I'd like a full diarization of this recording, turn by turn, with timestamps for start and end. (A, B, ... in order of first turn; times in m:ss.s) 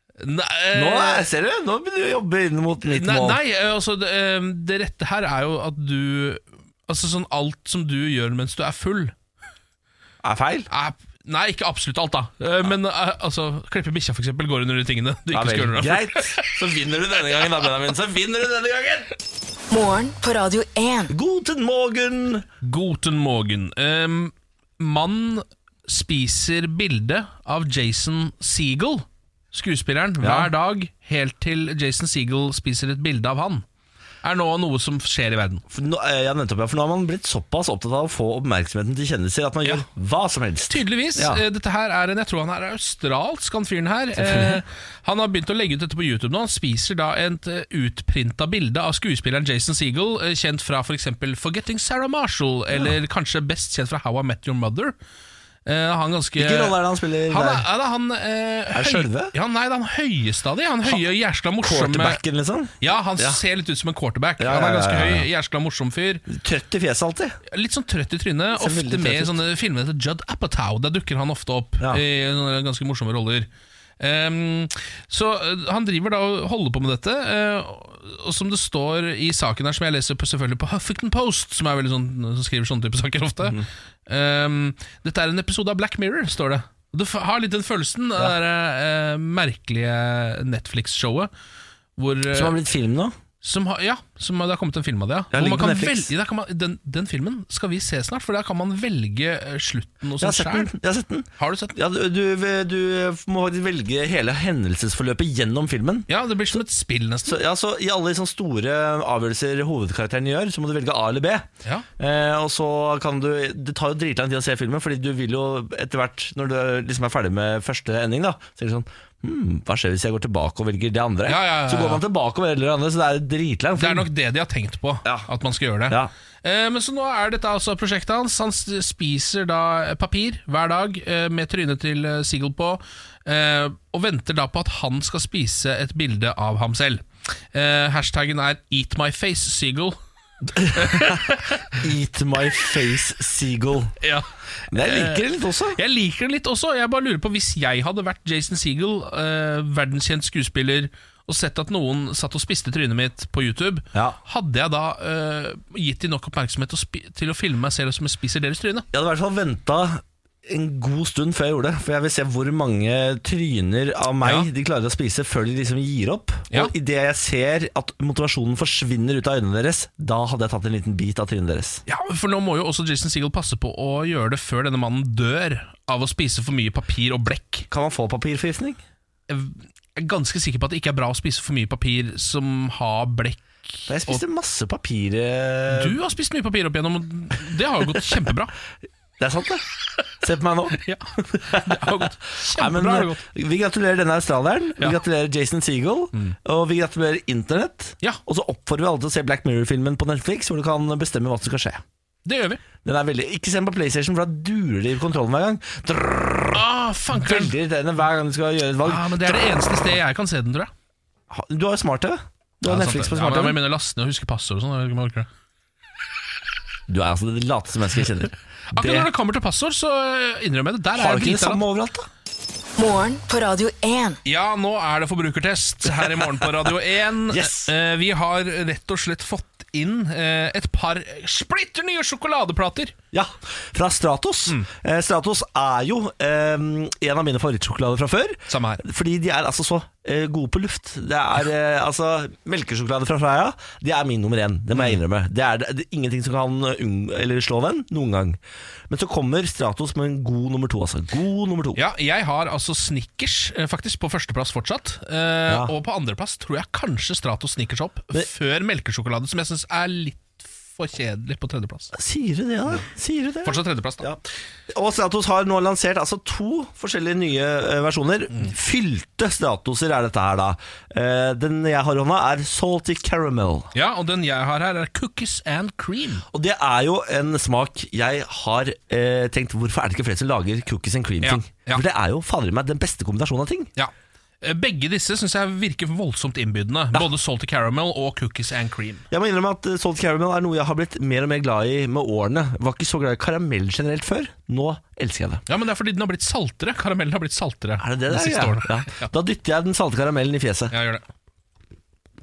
0:00.2-0:01.3 A
0:00.7-0:03.4 B
0:02.9-0:09.1 A
0:10.2-0:10.7 B
0:10.7-0:16.6 A
0:15.3-0:19.1 B
0:19.7-0:21.1 C
0:21.1-0:22.5 B
0:22.6-0:33.6 A
0:30.2-0:30.5 B
0:34.2-0:35.6 A
0:35.7-0:41.4 B
0:40.7-0:55.0 A
0:44.2-0:44.6 B
0:52.7-0:53.0 B
0:55.7-1:02.2 A
0:56.4-0:57.7 B
0:58.7-0:59.3 B
1:01.6-1:03.4 B
1:02.8-1:06.3 A
1:04.4-1:05.3 B
1:06.3-1:07.4 B
1:07.5-1:13.5 A
1:08.5-1:09.4 B
1:14.0-1:31.3 A
1:32.0-1:32.6 A
1:32.3-1:33.2 B
1:33.4-1:40.7 A
1:35.3-1:36.1 B
1:40.2-1:46.1 B
1:41.4-1:41.8 A
1:46.1-1:47.4 A
1:47.3-1:51.5 B
1:52.0-2:04.1 B
2:01.3-2:02.0 A
2:03.8-2:20.0 A
2:20.5-2:21.2 B
2:20.6-2:21.8 A
2:21.7-2:24.0 B
2:24.0-2:38.9 A
2:24.7-2:25.8 B
2:38.9-2:51.8 B
2:44.2-2:44.5 A
2:51.9-2:57.7 A
2:57.7-2:58.8 B
2:59.3-3:04.2 A
3:03.9-3:06.0 B
3:05.7-3:08.6 A
3:09.2-3:09.7 B
3:10.2-3:21.8 B
3:10.7-3:13.2 A
3:22.3-3:22.6 A
3:22.8-3:29.5 B
3:26.5-3:27.5 A
3:28.8-3:30.7 A
3:31.3-3:33.6 B
3:32.6-3:35.3 A
3:36.9-3:39.1 B
3:38.7-3:41.6 A
3:41.0-3:42.1 B
3:42.8-3:44.2 C
3:44.2-3:52.9 A
3:47.3-3:47.7 B
3:53.1-4:11.8 B
3:58.5-3:58.8 A
4:11.8-4:21.9 A
4:15.5-4:15.7 B
4:21.9-4:33.7 B
4:23.4-4:24.1 A
4:33.7-4:36.2 A
4:36.3-4:43.7 B
4:41.2-4:41.8 A
4:43.8-4:49.0 A
4:49.1-4:55.4 B
4:55.5-4:59.1 A
4:57.8-5:00.7 B
5:00.7-5:01.0 A